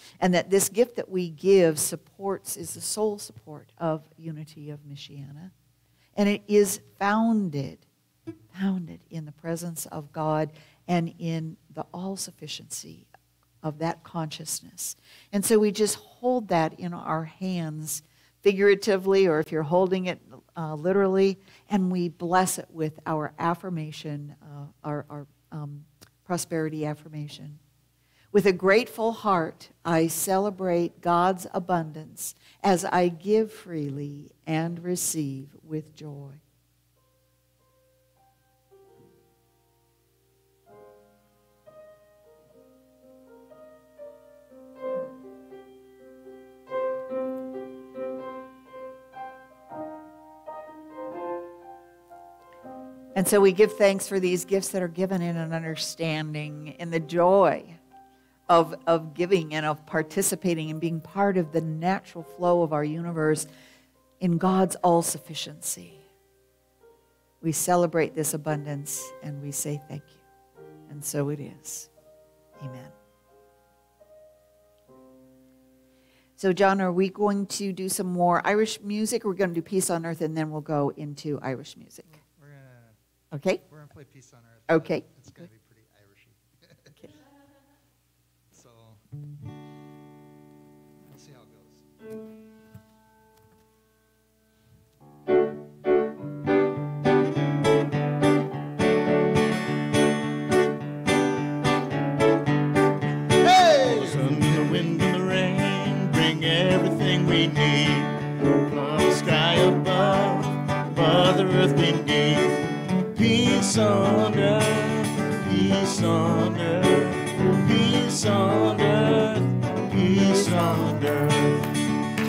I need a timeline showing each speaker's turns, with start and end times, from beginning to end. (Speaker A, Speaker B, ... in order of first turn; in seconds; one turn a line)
Speaker A: 0.2-5.5
Speaker A: 6.2-7.8
Speaker A: 8.5-13.1
Speaker A: 13.6-27.6
Speaker A: 28.3-36.4
Speaker A: 53.1-57.8
Speaker A: 58.5-63.5
Speaker A: 64.2-66.0
Speaker A: 67.4-70.2
Speaker A: 70.9-71.9
Speaker A: 72.6-72.9
Speaker A: 76.4-82.1
Speaker B: 82.1-83.0
Speaker A: 83.3-83.6
Speaker B: 83.7-87.0
Speaker A: 84.7-85.4
Speaker B: 88.5-89.0
Speaker B: 91.1-91.8
Speaker B: 103.4-104.9
Speaker C: 103.8-121.7